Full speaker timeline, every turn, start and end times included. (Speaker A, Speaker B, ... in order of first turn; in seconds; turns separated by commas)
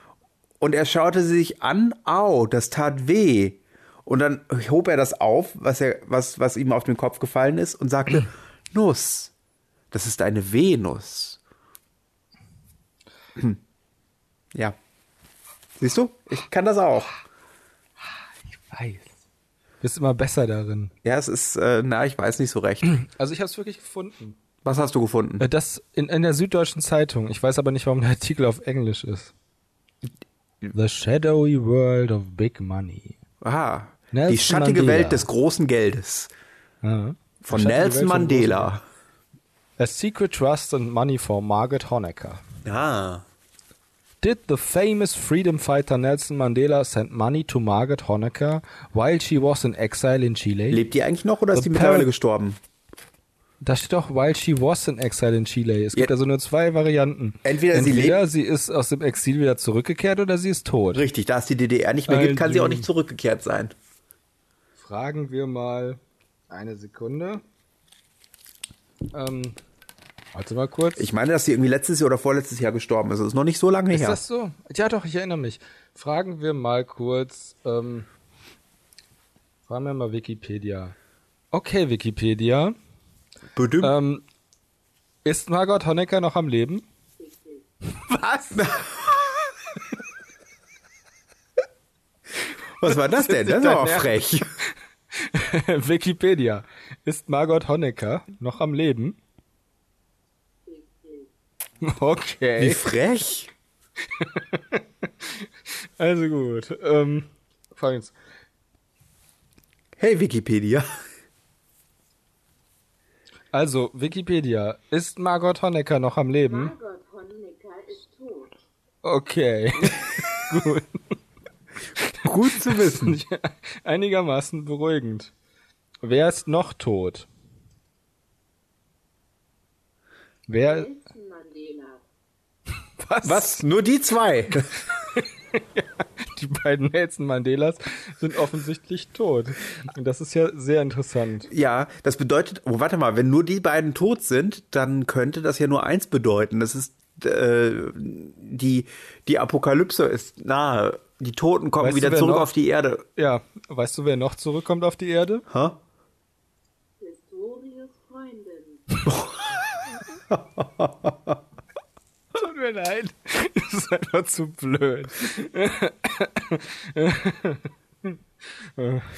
Speaker A: 0.6-9.3, Speaker A: 9.9-11.4, Speaker A: 15.8-17.1, Speaker B: 18.5-19.2, Speaker B: 19.8-20.9, Speaker A: 21.0-22.9, Speaker B: 22.8-24.4, Speaker A: 24.6-25.4, Speaker B: 25.4-29.3, Speaker B: 30.7-33.2, Speaker A: 33.4-36.3, Speaker B: 34.1-35.3, Speaker B: 36.8-38.8, Speaker A: 37.4-38.8, Speaker B: 39.8-42.4, Speaker A: 42.6-43.2, Speaker B: 44.2-50.8, Speaker A: 50.7-52.6, Speaker B: 51.5-52.1, Speaker B: 53.6-61.0, Speaker A: 57.4-58.2, Speaker A: 60.9-63.7, Speaker B: 62.1-62.9, Speaker B: 64.8-67.4, Speaker B: 69.1-69.6, Speaker B: 70.3-71.1, Speaker A: 71.0-74.2, Speaker B: 73.9-78.1, Speaker B: 79.7-80.9, Speaker B: 81.5-82.7, Speaker A: 83.5-83.9, Speaker B: 83.8-84.2, Speaker B: 85.2-86.8, Speaker C: 87.2-87.6, Speaker B: 87.9-88.9, Speaker A: 88.6-88.8, Speaker A: 92.8-94.5, Speaker B: 92.8-99.2, Speaker C: 100.7-101.3, Speaker B: 101.8-102.9, Speaker A: 102.6-103.5, Speaker B: 104.2-108.1, Speaker A: 110.0-110.9, Speaker B: 113.5-116.7, Speaker C: 116.5-118.5, Speaker B: 119.0-121.1, Speaker B: 122.0-125.3, Speaker A: 122.2-123.2, Speaker B: 126.0-127.3, Speaker B: 130.5-130.9, Speaker C: 130.6-132.0, Speaker B: 133.0-133.6, Speaker A: 133.2-134.7, Speaker B: 135.0-141.5, Speaker A: 141.5-153.0, Speaker B: 151.8-152.5, Speaker B: 153.2-155.4, Speaker A: 155.5-155.8, Speaker C: 157.0-159.0, Speaker A: 159.1-159.4, Speaker A: 160.3-161.4, Speaker B: 162.3-168.2, Speaker B: 168.8-169.1